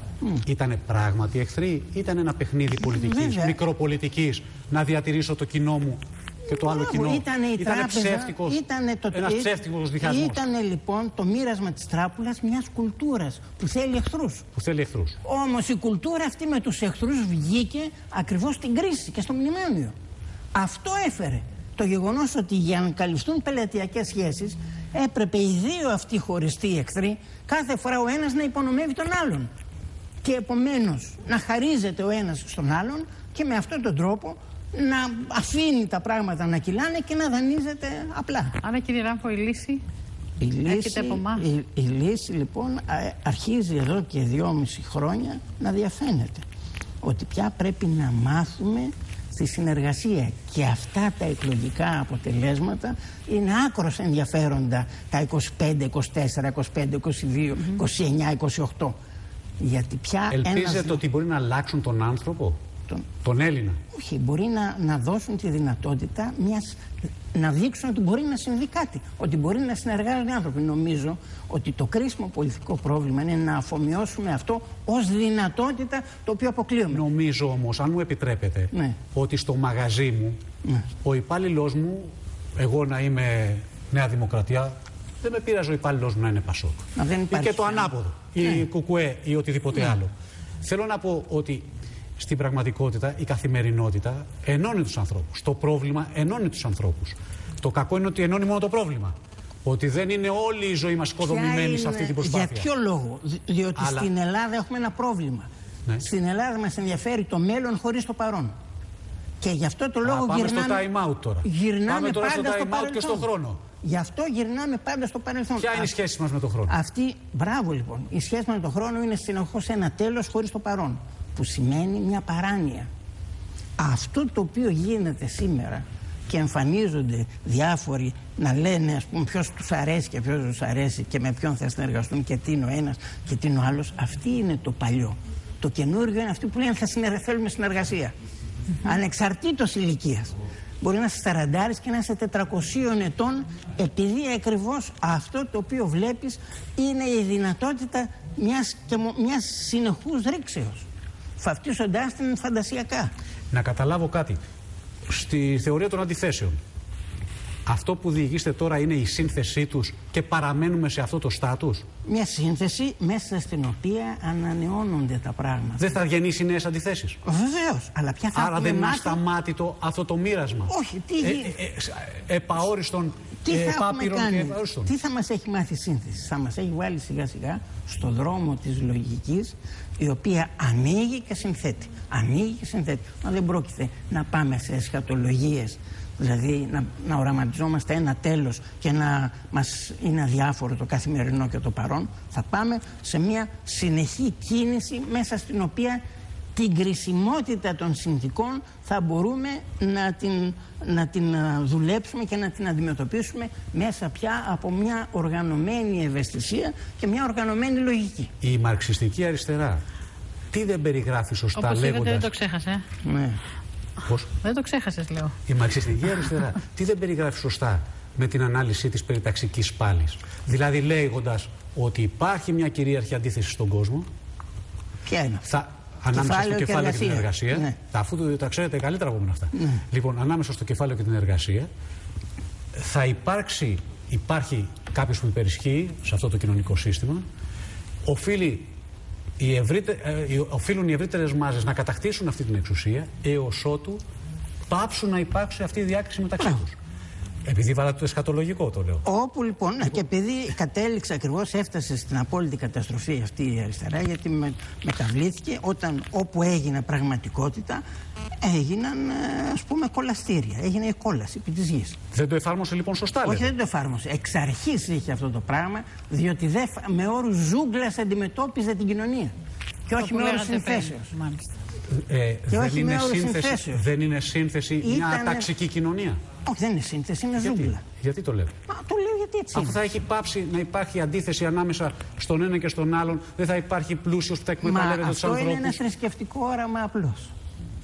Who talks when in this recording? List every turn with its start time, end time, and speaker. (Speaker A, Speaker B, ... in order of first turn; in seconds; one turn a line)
Speaker A: 0.5-10.4
Speaker B: 2.8-3.6
Speaker B: 6.5-14.5
Speaker A: 14.6-15.2
Speaker B: 15.2-19.9
Speaker B: 20.5-29.5
Speaker B: 30.2-38.6
Speaker C: 38.6-39.8
Speaker B: 40.4-46.4
Speaker C: 40.7-41.5
Speaker B: 47.0-59.0
Speaker B: 59.6-61.0
Speaker A: 60.3-62.6
Speaker A: 63.2-63.8
Speaker B: 63.9-66.8
Speaker B: 67.3-77.0
Speaker A: 76.9-80.4
Speaker B: 78.7-79.0
Speaker A: 81.0-90.1
Speaker B: 87.0-87.9
Speaker A: 90.6-102.7
Speaker B: 101.2-108.5
Speaker A: 103.8-104.1
Speaker B: 109.4-110.9
Speaker A: 110.0-113.6
Speaker B: 111.4-113.3
Speaker B: 113.8-115.9
Speaker A: 115.6-116.8
Speaker B: 116.7-122.9
Speaker B: 123.8-138.1
Speaker B: 138.8-150.9
Speaker B: 151.4-153.1
Speaker A: 153.5-154.4
Speaker A: 155.1-156.6
Speaker A: 157.7-161.9
Speaker B: 162.1-166.0
Speaker A: 165.8-167.2
Speaker B: 167.2-169.2
Speaker A: 168.3-174.9
Speaker B: 170.7-171.6
Speaker B: 173.4-196.0
Speaker B: 196.6-208.3
Speaker A: 208.4-209.8
Speaker A: 210.5-212.3
Speaker C: 211.6-212.8
Speaker B: 213.0-213.4
Speaker A: 214.0-214.3
Speaker C: 214.4-215.4
Speaker A: 215.5-224.1
Speaker B: 225.1-225.5
Speaker A: 225.5-231.7
Speaker B: 226.1-227.8
Speaker B: 229.5-229.8
Speaker A: 232.7-237.2
Speaker A: 238.1-238.7
Speaker A: 239.4-244.0
Speaker A: 244.7-246.8
Speaker A: 247.5-249.1
Speaker B: 249.1-257.8
Speaker B: 258.4-262.0
Speaker A: 262.1-263.5
Speaker B: 263.2-269.3
Speaker B: 269.9-271.1
Speaker C: 269.9-271.5
Speaker A: 271.9-276.2
Speaker B: 272.5-273.9
Speaker B: 274.8-275.5
Speaker B: 276.5-277.8
Speaker A: 277.4-278.5
Speaker B: 278.7-279.8
Speaker A: 279.5-285.8
Speaker B: 284.6-287.3